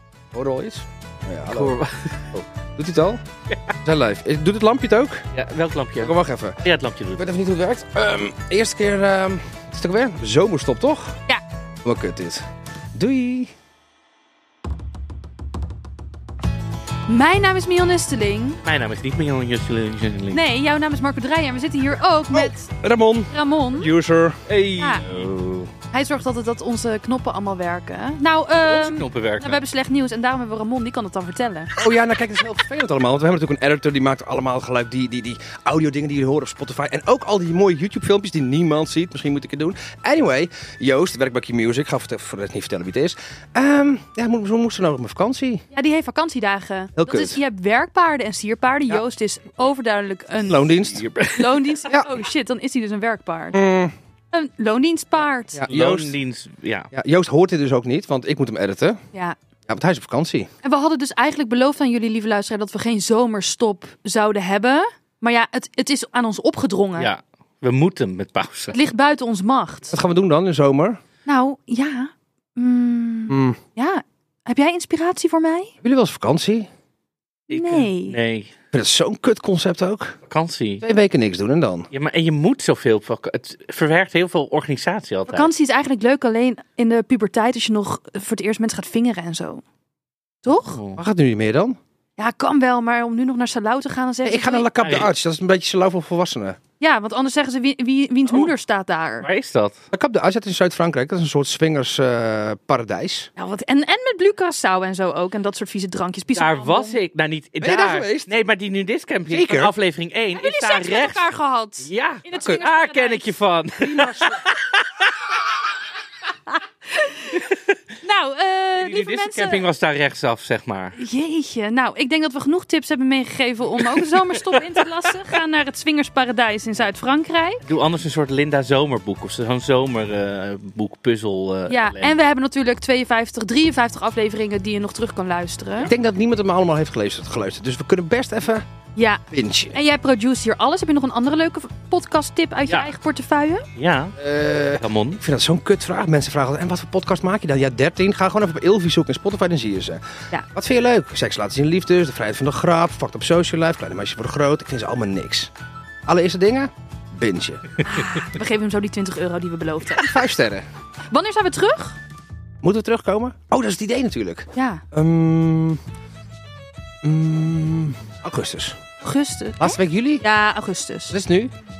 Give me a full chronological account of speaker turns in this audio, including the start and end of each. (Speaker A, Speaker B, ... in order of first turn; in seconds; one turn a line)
Speaker A: 0.3-1.8
Speaker B: 1.5-2.4
Speaker A: 2.3-3.2
Speaker A: 3.8-5.3
Speaker B: 5.3-7.2
Speaker A: 6.0-6.6
Speaker A: 7.2-11.2
Speaker A: 11.8-12.4
Speaker A: 12.9-13.5
Speaker C: 17.1-18.6
Speaker B: 18.6-20.4
Speaker C: 20.3-22.7
Speaker A: 22.3-24.4
Speaker C: 23.3-23.9
Speaker B: 24.5-25.7
Speaker C: 24.8-25.1
Speaker C: 25.9-31.7
Speaker B: 28.6-29.6
Speaker A: 31.8-45.6
Speaker C: 45.7-53.6
Speaker A: 47.0-47.4
Speaker A: 50.5-51.0
Speaker B: 50.9-51.8
Speaker A: 53.5-53.9
Speaker C: 54.3-55.6
Speaker A: 55.5-56.2
Speaker B: 55.7-56.9
Speaker A: 56.9-59.0
Speaker A: 59.7-60.5
Speaker C: 60.6-67.1
Speaker B: 67.0-68.8
Speaker C: 68.7-70.0
Speaker A: 69.9-71.0
Speaker C: 71.2-75.7
Speaker A: 73.3-73.6
Speaker A: 75.8-76.7
Speaker B: 77.5-78.5
Speaker C: 77.5-78.2
Speaker A: 78.7-80.2
Speaker B: 80.3-80.8
Speaker A: 80.8-81.9
Speaker B: 81.9-85.5
Speaker C: 85.3-89.6
Speaker C: 90.4-90.8
Speaker B: 90.5-91.0
Speaker A: 91.0-91.8
Speaker C: 92.2-94.7
Speaker A: 94.2-96.6
Speaker B: 94.8-95.1
Speaker C: 96.8-99.3
Speaker B: 98.3-98.5
Speaker B: 99.2-99.8
Speaker A: 99.9-103.3
Speaker C: 103.3-107.0
Speaker B: 106.3-111.3
Speaker A: 107.6-108.3
Speaker A: 109.3-109.7
Speaker C: 110.3-113.3
Speaker B: 111.8-115.1
Speaker A: 113.8-114.4
Speaker C: 116.5-117.4
Speaker B: 117.3-117.8
Speaker C: 118.0-119.7
Speaker B: 118.7-121.0
Speaker C: 121.0-127.6
Speaker B: 123.8-124.8
Speaker B: 127.6-132.1
Speaker C: 131.7-135.9
Speaker A: 135.8-138.6
Speaker C: 138.9-143.7
Speaker A: 139.3-139.8
Speaker B: 143.8-144.2
Speaker A: 144.2-150.0
Speaker B: 144.8-145.2
Speaker A: 150.5-155.5
Speaker A: 156.1-157.6
Speaker C: 157.8-160.1
Speaker A: 159.9-160.6
Speaker C: 161.1-162.0
Speaker A: 162.6-165.8
Speaker C: 164.5-164.8
Speaker A: 167.0-168.8
Speaker C: 169.0-171.2
Speaker A: 169.6-170.2
Speaker A: 171.1-171.5